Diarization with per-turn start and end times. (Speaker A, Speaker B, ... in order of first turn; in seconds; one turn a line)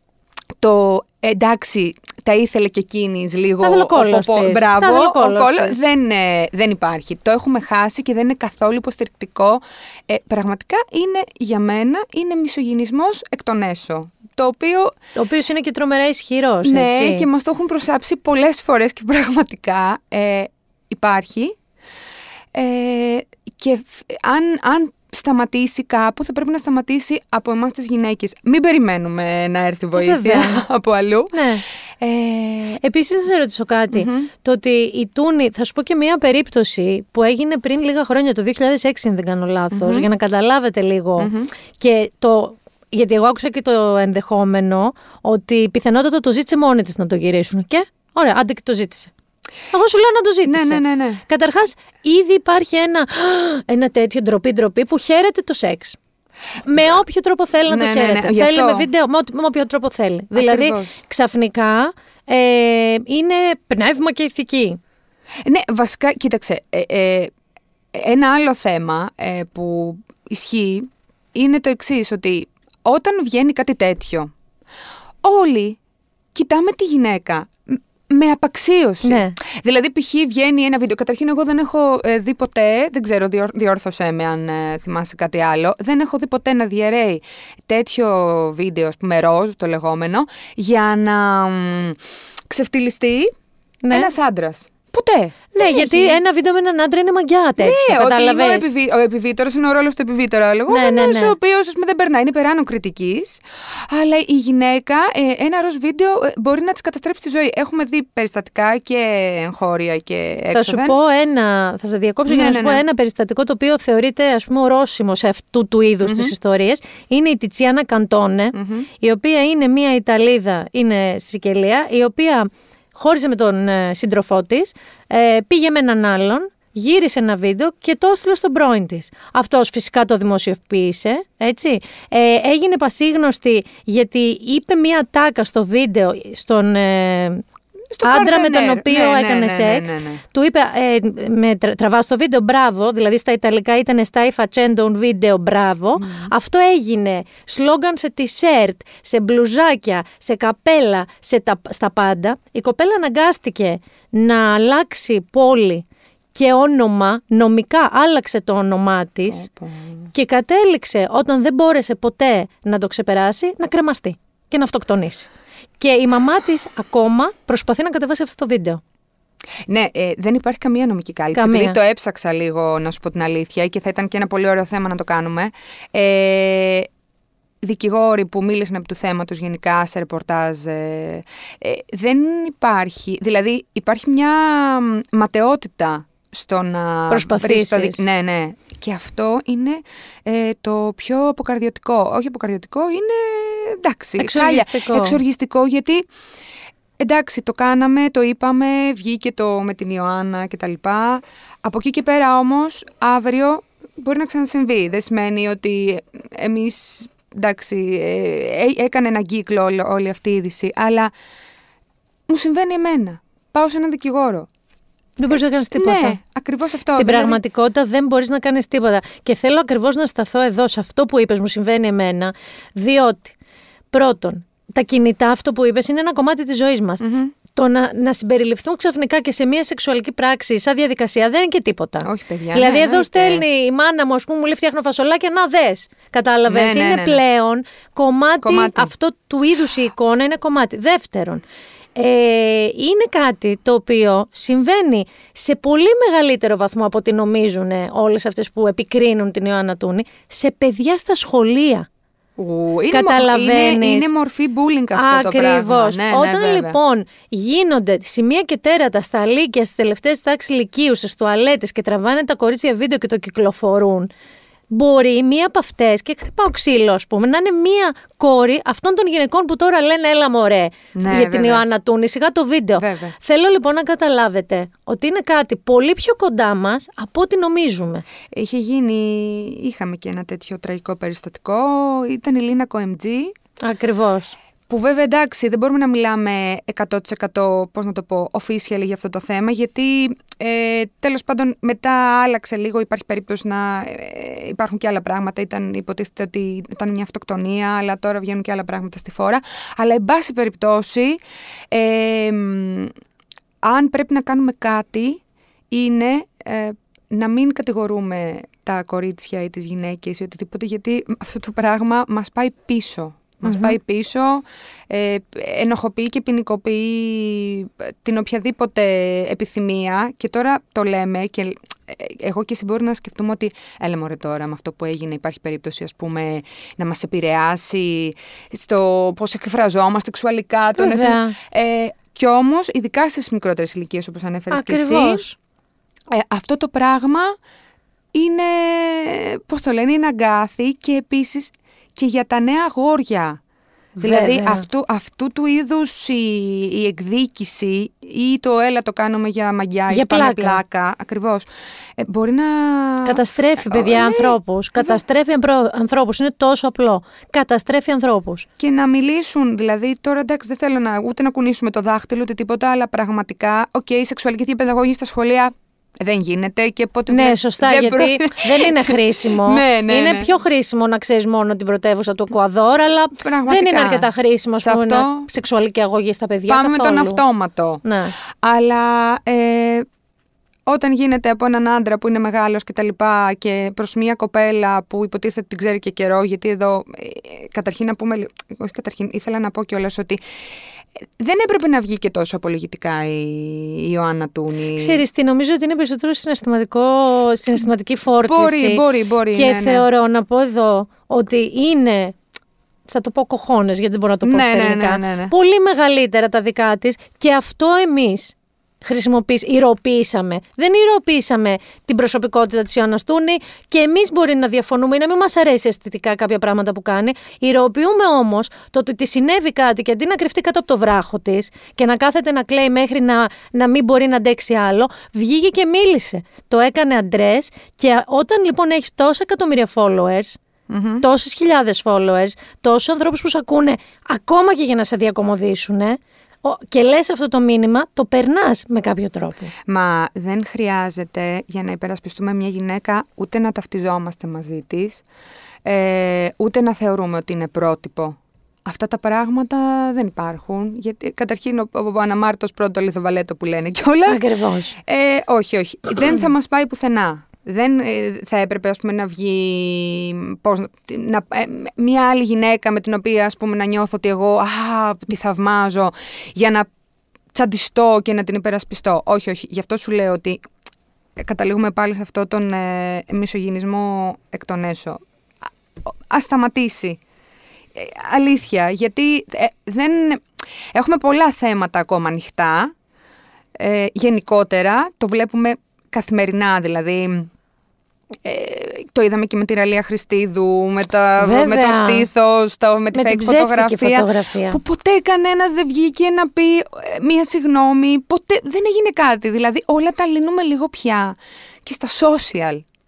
Speaker A: 0.6-14.9
Speaker B: 3.6-5.8
Speaker B: 15.2-17.2
Speaker A: 16.6-21.6
Speaker A: 22.5-31.5
Speaker B: 29.9-30.6
Speaker B: 31.3-31.6
Speaker A: 32.0-32.8
Speaker B: 32.8-49.1
Speaker A: 33.9-34.3
Speaker A: 39.7-40.1
Speaker A: 41.2-41.5
Speaker B: 49.7-56.0
Speaker A: 50.5-51.2
Speaker B: 56.6-64.8
Speaker A: 57.6-58.9
Speaker A: 60.4-60.9
Speaker A: 65.5-67.3
Speaker A: 67.9-74.3
Speaker A: 75.2-75.8
Speaker A: 76.3-93.3
Speaker B: 79.0-79.4
Speaker B: 93.8-94.1
Speaker A: 93.9-96.2
Speaker B: 95.5-98.7
Speaker A: 97.6-111.0
Speaker B: 100.7-101.3
Speaker B: 110.5-137.4
Speaker A: 112.3-112.8
Speaker A: 116.0-116.3
Speaker A: 118.5-118.9
Speaker A: 137.9-140.2
Speaker B: 138.0-159.5
Speaker A: 146.0-146.3
Speaker A: 159.3-160.1
Speaker B: 160.1-168.8
Speaker A: 169.7-176.9
Speaker B: 171.3-171.8
Speaker A: 177.6-196.1
Speaker B: 187.1-188.0
Speaker B: 194.2-195.2
Speaker A: 197.0-211.1
Speaker A: 212.3-214.5
Speaker B: 215.2-216.2
Speaker A: 215.7-217.4
Speaker B: 216.9-223.3
Speaker B: 223.9-241.4
Speaker A: 227.0-227.3
Speaker A: 232.0-233.4
Speaker A: 236.5-237.2
Speaker A: 238.4-238.9
Speaker B: 241.9-251.9
Speaker A: 252.4-256.8
Speaker B: 252.9-254.1
Speaker B: 254.9-264.1
Speaker B: 264.7-278.0
Speaker A: 270.9-271.6
Speaker A: 272.8-273.1
Speaker A: 278.3-283.3
Speaker B: 283.6-284.4
Speaker A: 284.7-301.2
Speaker A: 301.7-302.9
Speaker A: 303.6-335.3
Speaker B: 313.5-313.7
Speaker B: 330.7-331.4
Speaker B: 334.5-335.3
Speaker A: 336.1-337.4
Speaker A: 338.1-343.4
Speaker B: 344.0-344.6
Speaker A: 344.0-355.0
Speaker B: 349.9-350.6
Speaker B: 353.0-358.5
Speaker A: 358.6-370.3
Speaker B: 367.1-377.2
Speaker A: 373.2-375.3
Speaker A: 376.5-377.8
Speaker B: 377.8-378.1
Speaker A: 378.4-379.9
Speaker A: 380.7-390.2
Speaker A: 391.2-395.0
Speaker B: 394.8-402.1
Speaker A: 398.2-399.8
Speaker B: 402.9-430.4
Speaker A: 404.2-405.3
Speaker A: 430.7-431.0
Speaker B: 431.0-439.5
Speaker A: 439.7-445.0
Speaker A: 445.6-454.2
Speaker B: 454.1-454.7
Speaker A: 454.9-466.7
Speaker A: 467.3-470.4
Speaker A: 471.2-475.0
Speaker A: 476.1-477.0
Speaker A: 477.7-482.7
Speaker A: 483.6-487.3
Speaker A: 488.2-502.6
Speaker B: 491.2-492.1
Speaker B: 492.9-494.6